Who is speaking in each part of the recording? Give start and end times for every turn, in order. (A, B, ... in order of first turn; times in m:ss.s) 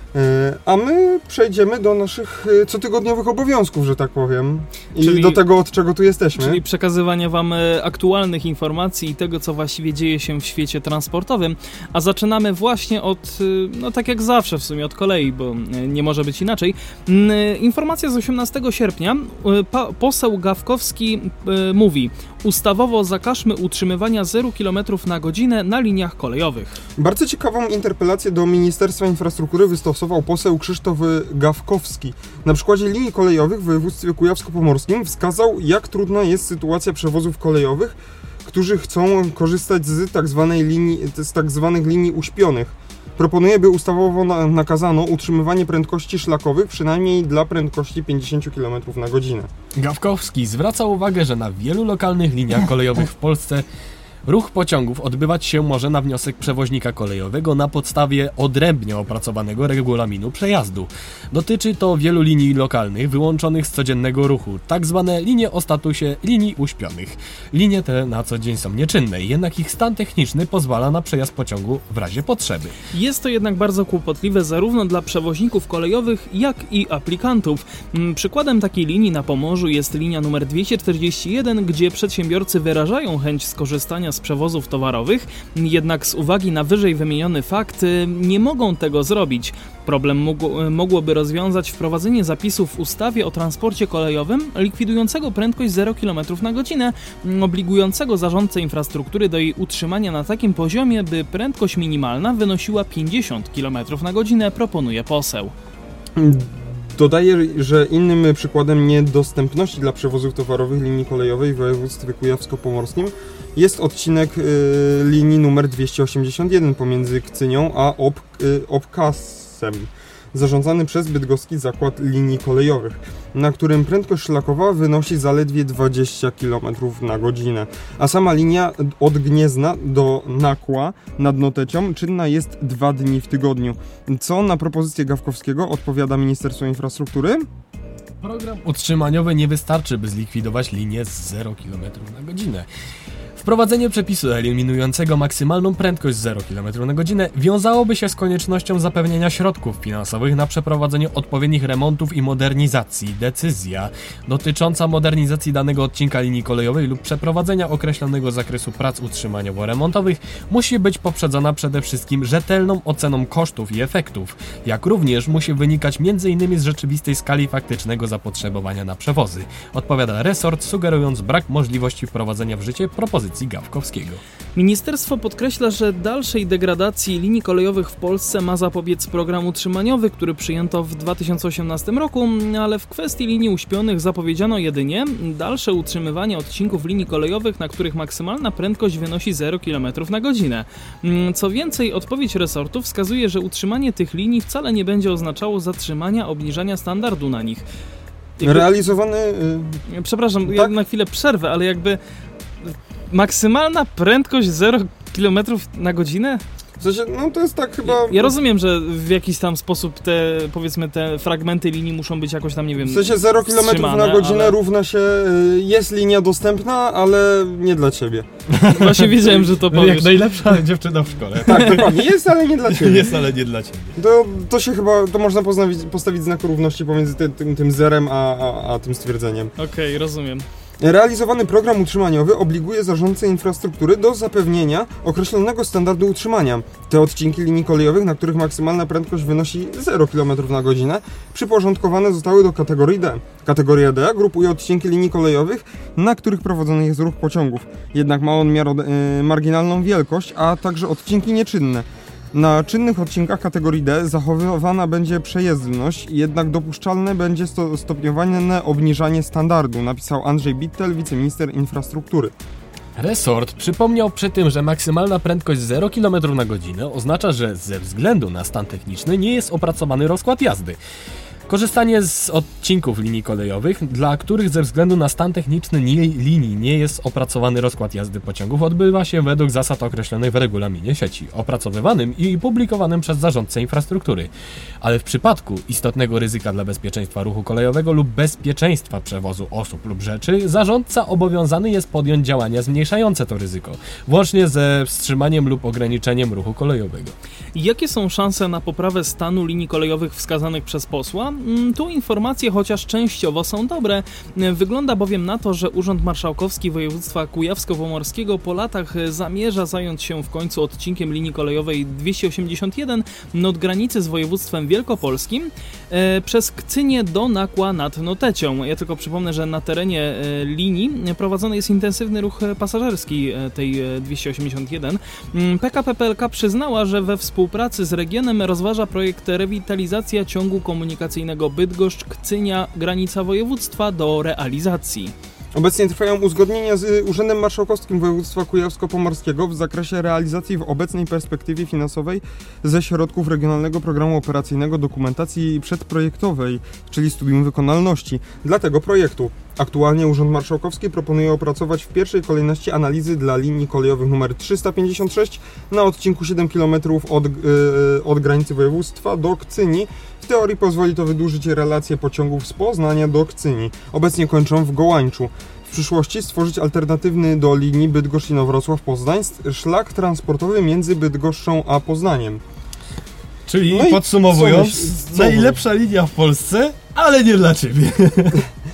0:00.1-0:06.6 A
0:05.0-0:05.4 B
0:06.4-0:26.8 B
0:27.0-0:49.5 A
0:49.8-0:53.6 C
0:54.2-1:12.7 C
1:12.9-1:45.5 B
1:46.2-2:17.4 A
2:18.2-2:22.7 C
2:23.4-2:54.2 C
2:54.5-3:17.6 B
3:18.4-3:18.7 B
3:18.4-3:19.8 A
3:19.9-3:22.0 B
3:20.4-3:20.7 A
3:22.6-3:26.4 B
3:26.8-3:28.3 A
3:27.8-3:34.6 B
3:32.8-3:38.3 A
3:38.5-3:42.0 C
3:38.7-3:40.6 B
3:41.4-3:43.2 A
3:41.5-3:41.8 B
3:42.6-3:43.9 C
3:44.0-3:49.5 A
3:49.6-3:50.4 B
3:50.8-4:22.3 A
4:23.0-4:30.8 C
4:31.5-4:44.3 C
4:44.8-4:57.2 C
4:57.5-5:35.1 B
5:35.5-6:12.4 A
6:13.5-6:18.4 C
6:13.6-6:15.6 A